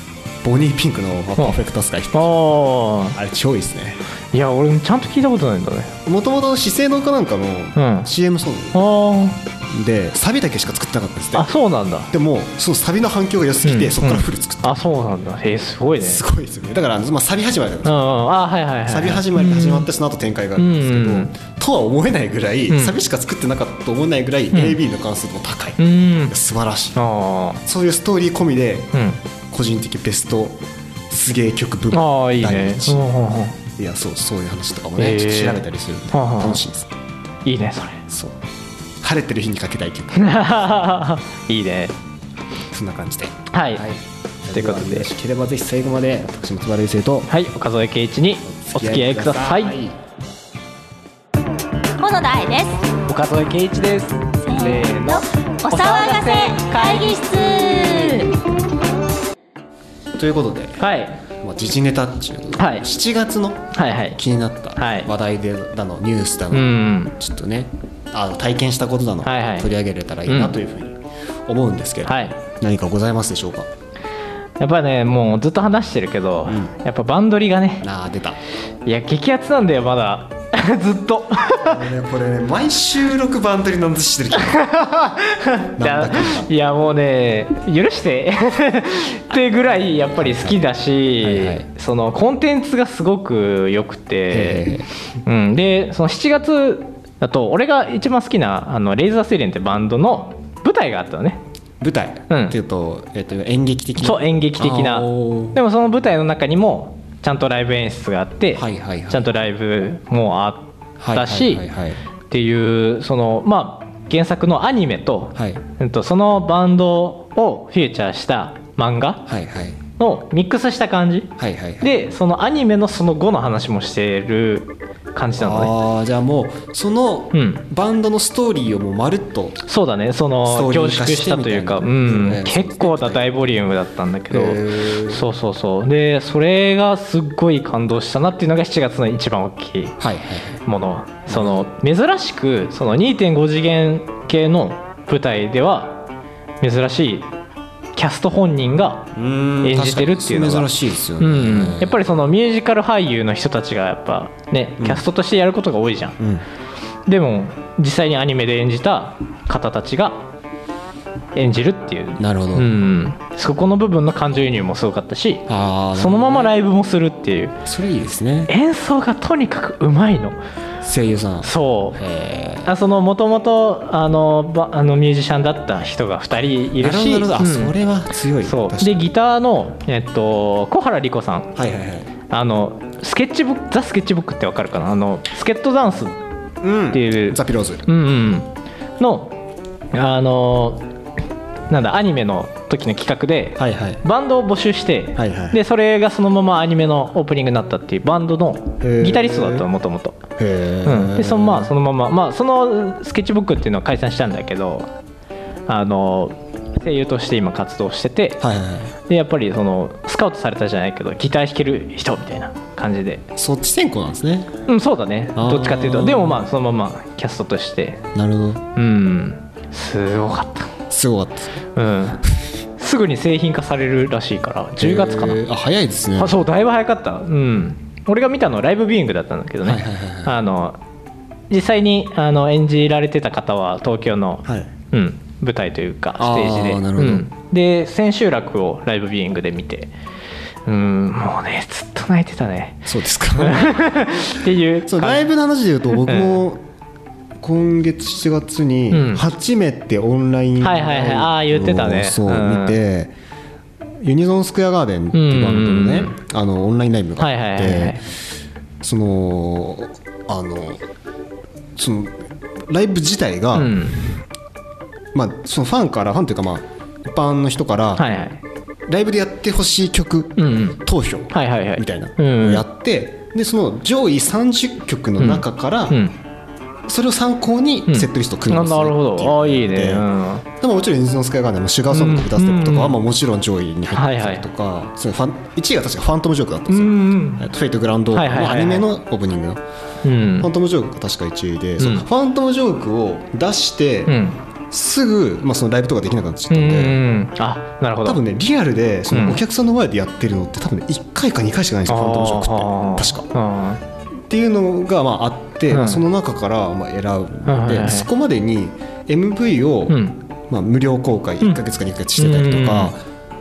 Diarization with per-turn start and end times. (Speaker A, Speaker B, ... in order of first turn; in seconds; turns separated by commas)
Speaker A: 0.4-2.4, Speaker B: 2.1-3.2, Speaker A: 3.1-4.0, Speaker B: 4.3-5.9, Speaker A: 6.1-8.8, Speaker B: 7.8-8.1, Speaker B: 8.7-9.4, Speaker A: 9.7-11.5, Speaker B: 11.3-12.1, Speaker A: 12.1-14.8, Speaker B: 13.6-16.2, Speaker A: 16.0-18.2, Speaker B: 17.9-19.9, Speaker A: 18.9-27.0, Speaker B: 20.6-21.3, Speaker B: 22.7-22.9, Speaker B: 24.5-24.8, Speaker B: 25.8-26.4, Speaker B: 27.0-27.6, Speaker A: 27.6-28.9, Speaker B: 28.9-29.2, Speaker A: 29.5-33.0, Speaker B: 31.9-33.6, Speaker A: 33.8-36.9, Speaker B: 35.0-35.6, Speaker B: 36.1-36.6, Speaker B: 37.5-38.0, Speaker A: 38.1-38.4, Speaker A: 39.0-40.6, Speaker B: 40.1-42.0, Speaker A: 42.7-47.3, Speaker B: 43.5-43.9, Speaker B: 44.5-45.1, Speaker B: 47.3-49.8, Speaker A: 48.4-50.0, Speaker C: 52.0-52.8, Speaker B: 53.1-57.3, Speaker C: 54.5-58.3, Speaker A: 60.2-60.8, Speaker B: 60.8-61.2, Speaker A: 61.4-73.7, Speaker B: 62.6-62.9, Speaker B: 63.7-64.2, Speaker B: 64.8-65.1, Speaker B: 66.5-67.1, Speaker B: 69.2-69.7, Speaker B: 70.3-70.5, Speaker B: 72.0-72.4, Speaker B: 74.6-77.9, Speaker A: 76.5-76.8, Speaker A: 77.8-78.4, Speaker B: 78.8-81.8, Speaker A: 81.6-84.7, Speaker B: 84.5-94.7, Speaker A: 85.7-86.5, Speaker A: 90.2-90.6, Speaker A: 91.2-91.7, Speaker A: 94.3-94.9, Speaker B: 95.2-101.4, Speaker A: 101.8-105.6, Speaker B: 102.3-102.6, Speaker B: 104.0-111.7, Speaker A: 108.6-109.3, Speaker A: 111.0-112.0, Speaker B: 112.3-119.3, Speaker A: 115.3-115.6, Speaker A: 119.3-119.8, Speaker B: 120.0-125.7, Speaker A: 121.4-122.0, Speaker A: 125.4-129.6, Speaker B: 127.3-127.7, Speaker B: 129.6-140.0, Speaker A: 130.5-133.7, Speaker A: 134.3-135.2, Speaker A: 140.0-140.6, Speaker B: 140.7-146.1, Speaker A: 141.3-141.7, Speaker B: 146.6-147.3, Speaker B: 147.9-149.1, Speaker A: 149.1-152.0, Speaker B: 149.6-156.2, Speaker A: 154.8-155.0, Speaker A: 156.2-156.5, Speaker B: 157.1-160.2, Speaker B: 161.3-167.6, Speaker A: 162.2-162.7, Speaker A: 165.5-166.6, Speaker A: 167.7-168.5, Speaker B: 168.5-170.4, Speaker A: 170.8-172.7, Speaker B: 171.4-172.0, Speaker B: 172.7-177.8, Speaker A: 176.8-179.1, Speaker B: 178.4-181.5, Speaker A: 181.6-182.1, Speaker B: 182.3-186.2, Speaker A: 186.6-187.9, Speaker B: 186.9-189.4, Speaker B: 189.9-190.9, Speaker B: 191.7-200.2, Speaker A: 193.6-194.0, Speaker A: 195.2-195.6, Speaker A: 198.8-199.7, Speaker A: 200.4-201.7, Speaker B: 200.8-204.9, Speaker B: 205.7-208.4, Speaker A: 208.4-208.9, Speaker B: 209.1-213.2, Speaker A: 213.4-214.5, Speaker B: 214.7-218.0, Speaker A: 215.3-216.4, Speaker A: 218.2-218.6, Speaker B: 218.8-220.7, Speaker A: 220.9-221.6, Speaker B: 221.8-222.2, Speaker B: 222.8-225.4, Speaker A: 224.8-226.4, Speaker B: 226.2-230.8, Speaker A: 229.6-230.4, Speaker B: 231.5-239.9, Speaker A: 234.4-234.7, Speaker A: 236.2-237.3, Speaker B: 240.7-245.3, Speaker A: 242.9-244.2, Speaker A: 244.8-246.6, Speaker B: 245.9-246.4, Speaker A: 247.4-253.1, Speaker B: 248.9-249.2, Speaker B: 250.6-252.8, Speaker A: 254.0-258.0, Speaker B: 255.1-256.2, Speaker B: 257.2-258.0, Speaker A: 258.8-260.8, Speaker A: 261.8-263.8, Speaker B: 263.5-264.0, Speaker A: 265.1-268.1, Speaker B: 268.0-268.4, Speaker A: 268.9-276.0, Speaker B: 270.4-270.8, Speaker B: 271.3-272.6, Speaker B: 275.2-276.1, Speaker A: 276.9-280.1, Speaker B: 277.9-280.4, Speaker A: 280.6-289.6, Speaker B: 281.9-283.0, Speaker B: 283.9-284.5, Speaker B: 286.7-287.5, Speaker B: 288.1-288.9, Speaker B: 290.0-290.5, Speaker A: 290.4-294.2, Speaker B: 291.8-292.1, Speaker B: 294.1-294.4, Speaker A: 294.7-297.0, Speaker B: 296.5-298.2, Speaker A: 298.0-303.3, Speaker B: 299.1-299.4, Speaker B: 301.9-303.8, Speaker A: 304.3-313.0, Speaker B: 305.7-306.0, Speaker B: 307.5-308.1, Speaker B: 309.9-310.2, Speaker B: 312.2-312.9